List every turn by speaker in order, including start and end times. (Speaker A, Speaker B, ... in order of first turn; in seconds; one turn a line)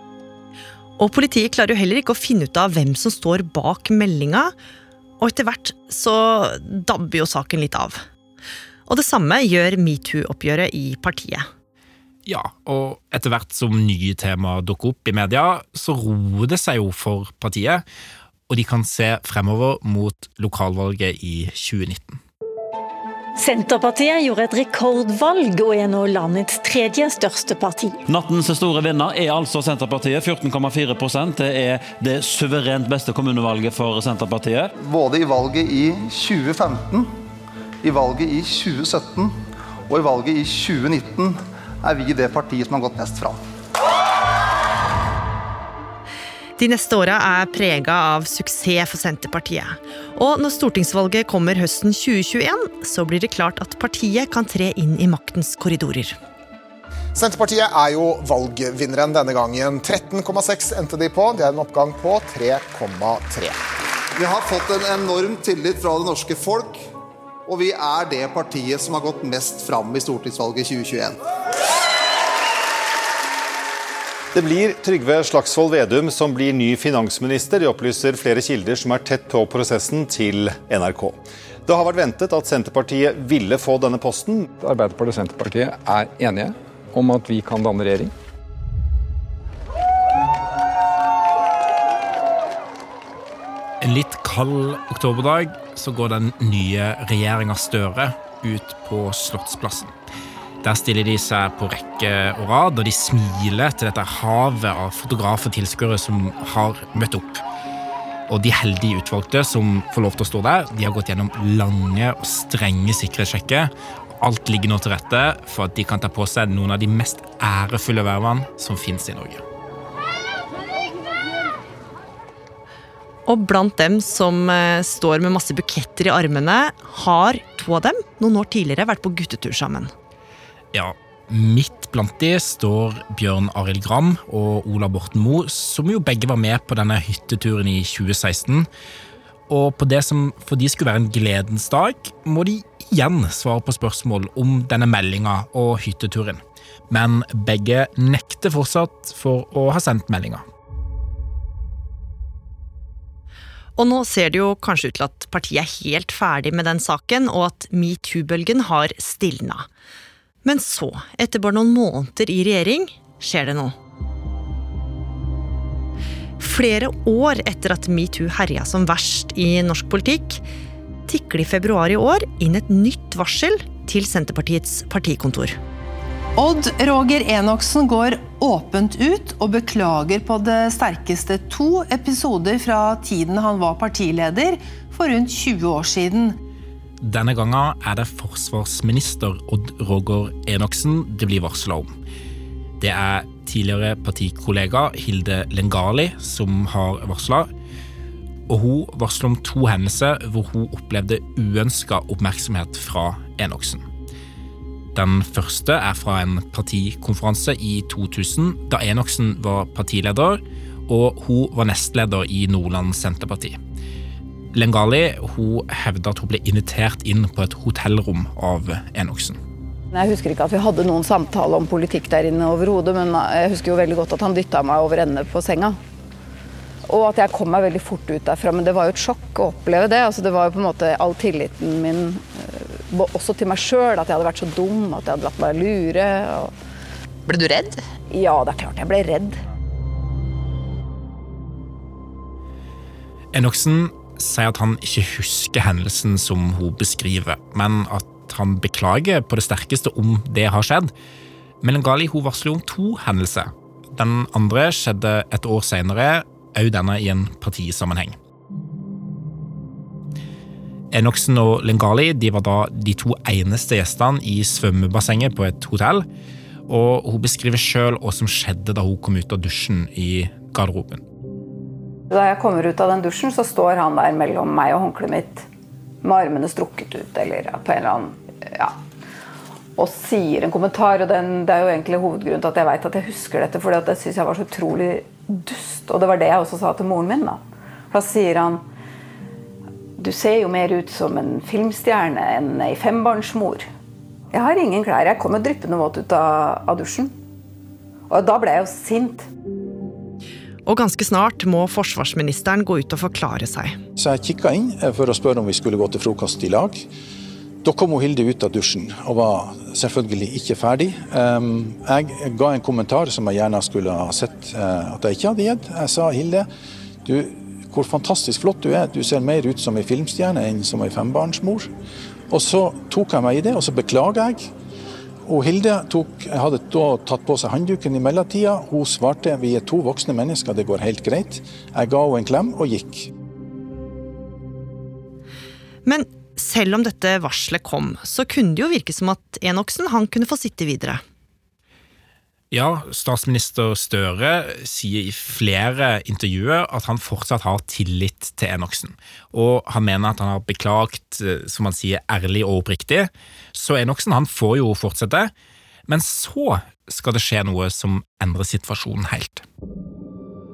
Speaker A: 1.0-4.5
Speaker A: 5.2-8.0
Speaker A: 8.9-11.5
Speaker B: 12.3-17.8
Speaker B: 18.5-22.2
Speaker C: 23.4-28.0
Speaker D: 28.1-34.7
Speaker E: 34.8-37.1
Speaker E: 37.8-39.4
Speaker E: 39.9-43.4
Speaker A: 46.6-56.2
Speaker F: 57.2-63.4
Speaker E: 64.2-66.9
Speaker E: 67.5-71.2
Speaker G: 74.3-84.5
Speaker H: 84.6-88.1
Speaker B: 93.8-99.9
Speaker B: 100.6-107.4
Speaker B: 108.3-119.4
Speaker A: 123.3-129.9
Speaker B: 130.7-138.7
Speaker B: 139.5-150.4
Speaker A: 153.8-159.7
Speaker A: 160.4-163.8
Speaker A: 166.4-170.4
Speaker A: 171.1-175.6
Speaker I: 176.4-186.4
Speaker B: 187.0-191.9
Speaker B: 192.8-197.5
Speaker B: 198.5-203.9
Speaker B: 204.9-213.6
Speaker B: 214.5-219.4
Speaker J: 219.9-225.8
Speaker J: 226.9-236.5
Speaker J: 238.1-239.4
Speaker B: 243.3-250.9
Speaker B: 251.6-258.2
Speaker B: 260.9-266.1
Speaker B: 266.7-271.0
Speaker J: 272.1-275.5
Speaker J: 276.0-278.8
Speaker J: 279.8-288.6
Speaker J: 290.0-293.7
Speaker J: 294.3-297.1
Speaker J: 298.1-299.3
Speaker A: 300.7-303.8
Speaker K: 304.0-306.9
Speaker K: 307.6-316.5
Speaker K: 317.1-321.7
Speaker K: 322.3-324.5
Speaker K: 325.3-333.1
Speaker A: 335.9-341.0
Speaker B: 342.5-355.3
Speaker B: 355.9-359.5